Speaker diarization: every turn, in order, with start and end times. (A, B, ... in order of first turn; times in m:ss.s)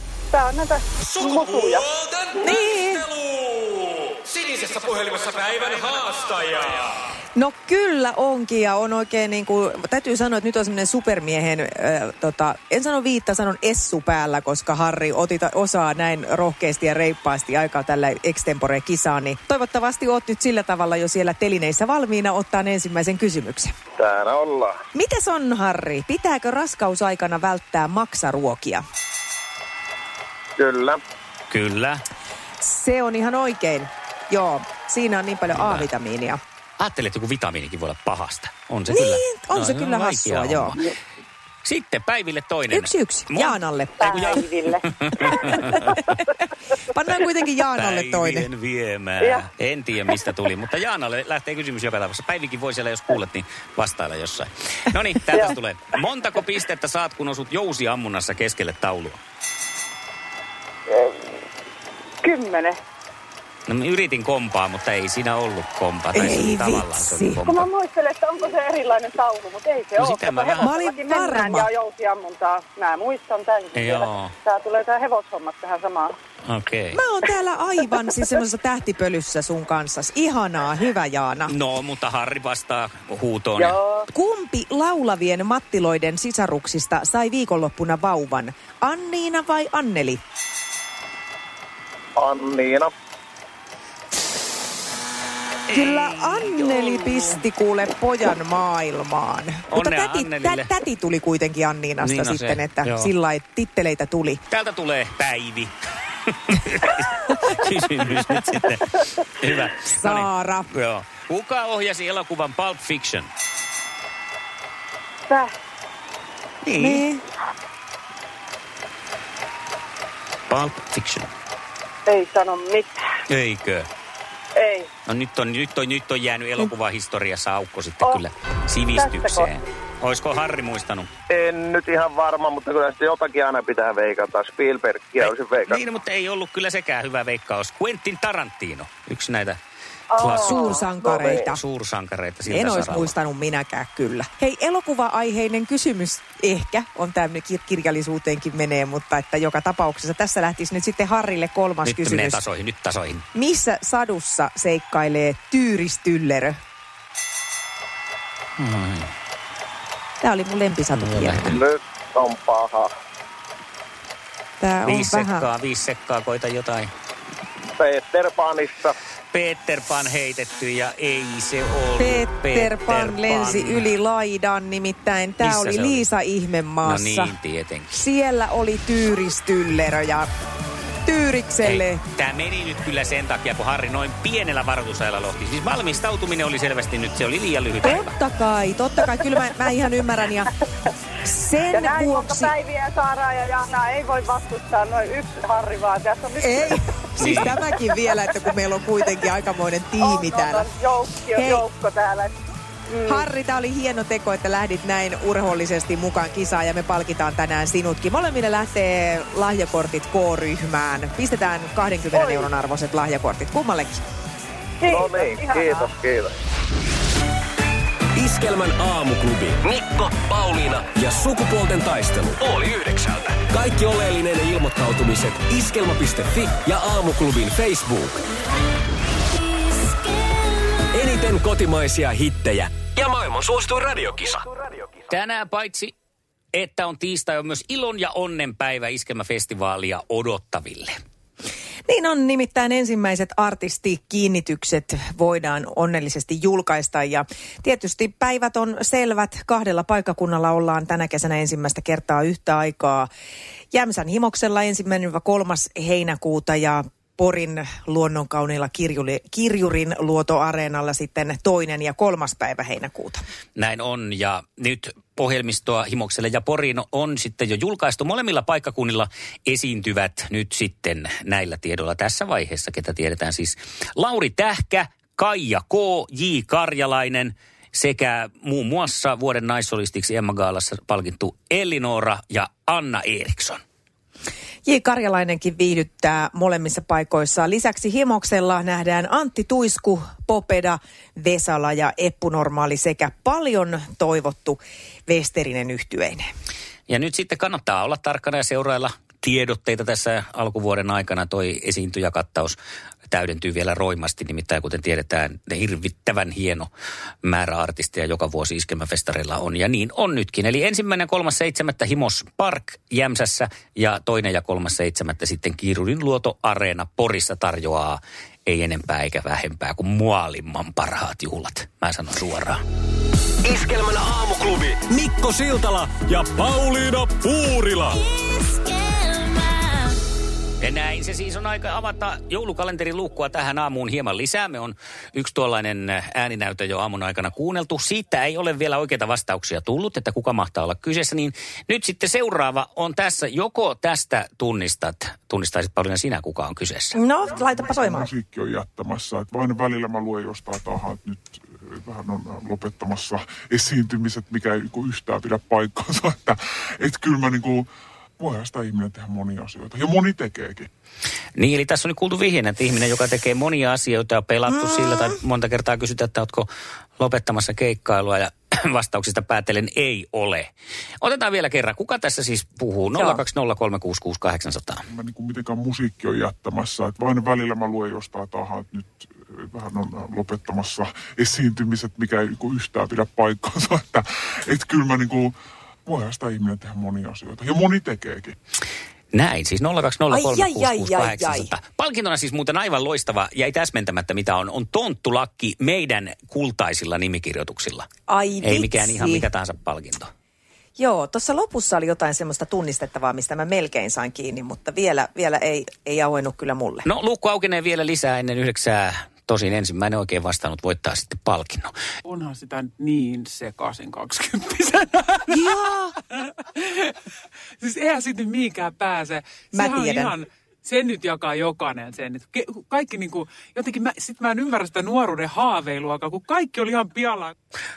0:00.3-0:01.9 A
0:01.3-0:01.8 B
0:02.4-0:03.1 C
0:04.6-0:06.6 B
0:07.4-0:23.7 C
0:24.0-0:24.8 D
0:24.9-0:28.8 C
0:30.6-0:31.0 D
0:31.5-0:32.0 E
0:32.6-0:36.4 C
0:35.5-0:35.9 E
0:36.8-0:40.9 E
0:38.9-0:40.8 C
0:41.6-0:46.0 E
0:42.7-0:44.4 C
0:44.0-0:45.0 A
0:45.2-0:46.2 C
0:46.9-0:48.5 C
0:47.8-0:59.2 E
0:49.2-0:49.5 A
1:00.9-1:01.2 A
1:02.2-1:02.8 A
1:03.7-1:07.7 E
1:06.1-1:07.4 C
1:07.5-1:16.2 A
1:10.0-1:10.7 E
1:10.6-1:11.7 C
1:13.8-1:14.3 E
1:16.4-1:17.0 E
1:16.9-1:21.5 C
1:21.5-1:23.8 E
1:23.6-1:24.1 A
1:24.1-1:30.2 C
1:32.2-1:32.9 D
1:35.7-1:37.4 E
1:35.7-1:44.4 C
1:39.7-1:40.7 E
1:42.0-1:43.1 E
1:44.5-1:45.7 E
1:46.3-1:53.3 E
1:49.8-1:50.7 C
1:56.6-1:57.1 E
1:56.8-1:57.2 C
2:00.5-2:01.3 E
2:02.1-2:03.0 A
2:03.3-2:03.9 E
2:04.6-2:04.9 A
2:05.1-2:11.1 E
2:09.0-2:09.5 A
2:11.3-2:15.8 D
2:15.2-2:19.6 E
2:20.1-2:20.9 A
2:20.2-2:23.1 E
2:20.3-2:21.6 C
2:21.0-2:21.5 D
2:22.4-2:32.4 C
2:31.8-2:33.3 E
2:33.4-2:36.6 C
2:38.6-2:39.1 E
2:40.2-2:41.6 C
2:41.0-2:41.6 E
2:41.5-2:42.9 D
2:44.6-2:45.5 C
2:44.9-2:46.9 E
2:47.8-2:49.0 D
2:49.3-2:53.9 E
2:52.0-2:57.3 C
2:55.4-2:56.0 E
2:56.8-2:58.0 E
2:57.9-3:00.3 C
3:01.0-3:02.0 C
3:01.6-3:08.1 E
3:07.8-3:10.5 C
3:11.2-3:12.6 C
3:11.7-3:16.8 A
3:16.4-3:20.7 C
3:17.2-3:17.6 E
3:17.4-3:18.0 A
3:20.0-3:22.3 A
3:21.3-3:21.7 C
3:22.9-3:23.3 A
3:23.1-3:34.0 C
3:32.1-3:32.5 A
3:34.8-3:35.8 A
3:34.9-3:36.3 D
3:38.2-3:48.2 B
3:50.9-3:54.5 B
3:55.1-3:55.9 E
3:56.5-4:01.0 E
4:01.9-4:13.1 C
4:13.7-4:23.2 C
4:23.6-4:43.6 E
4:44.7-4:56.2 C
4:56.9-5:02.6 E
5:03.1-5:06.7 E
5:07.2-5:22.6 E
5:23.4-5:28.0 B
5:30.6-5:47.0 E
5:47.0-5:48.1 C
5:47.4-5:57.7 F
5:58.2-6:00.7 F
6:01.4-6:06.5 E
6:04.5-6:05.2 C
6:07.0-6:10.5 E
6:11.0-6:14.8 E
6:13.0-6:13.2 C
6:14.9-6:25.3 F
6:25.9-6:28.4 F
6:29.1-6:37.9 E
6:30.1-6:31.5 C
6:38.1-6:39.3 C
6:38.4-6:40.1 E
6:40.8-6:46.9 C
6:46.8-6:51.7 E
6:52.0-6:55.5 G
6:55.3-6:56.0 C
6:57.6-7:07.3 G
6:59.5-7:00.2 C